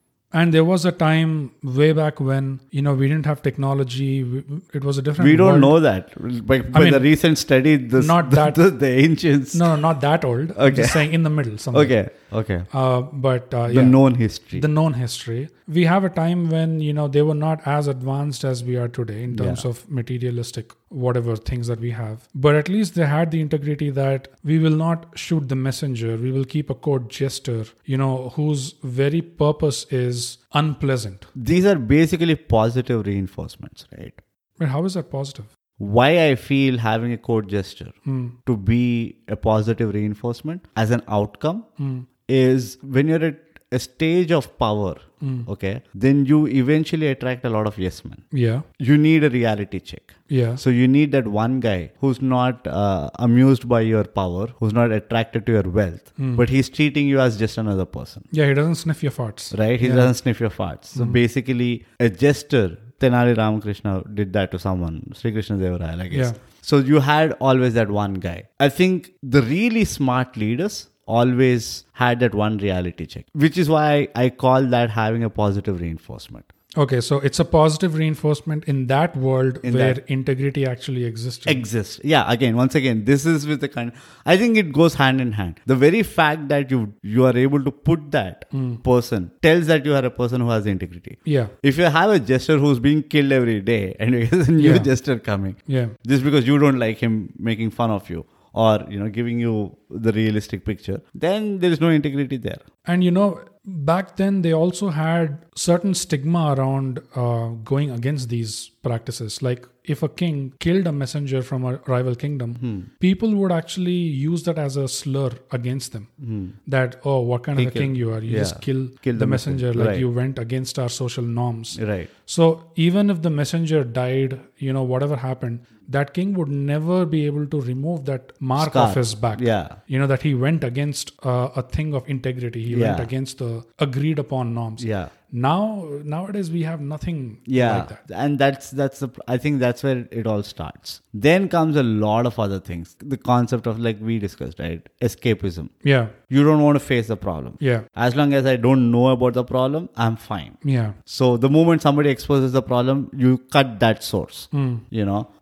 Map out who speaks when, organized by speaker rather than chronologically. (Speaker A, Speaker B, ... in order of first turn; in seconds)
Speaker A: 0.3-5.8, 6.7-7.1, 8.0-8.6, 9.5-11.9, 12.7-14.0, 14.6-31.3, 34.6-35.5, 38.1-38.4, 41.8-42.1, 45.2-45.5, 48.3-48.6, 50.3-50.6, 56.2-56.5, 58.3-60.1, 61.0-61.2, 66.1-66.4, 76.8-81.6, 88.5-88.8, 91.3-91.5, 94.6-94.9, 95.7-96.0, 102.9-116.1, 116.7-138.0, 145.8-146.1, 147.6-147.9, 150.6-151.0, 154.5-154.8
Speaker B: 5.2-9.7, 10.6-11.1, 11.7-12.7, 13.7-14.7, 19.3-19.6, 31.4-34.2, 35.8-37.9, 38.5-41.7, 42.3-48.2, 48.8-58.3, 59.5-76.5, 79.6-80.0, 81.5-102.6, 112.6-112.9, 116.2-116.6, 117.5-120.1, 121.8-122.1, 128.6-129.8, 132.7-133.1, 134.8-135.1, 137.5-145.7, 146.3-155.3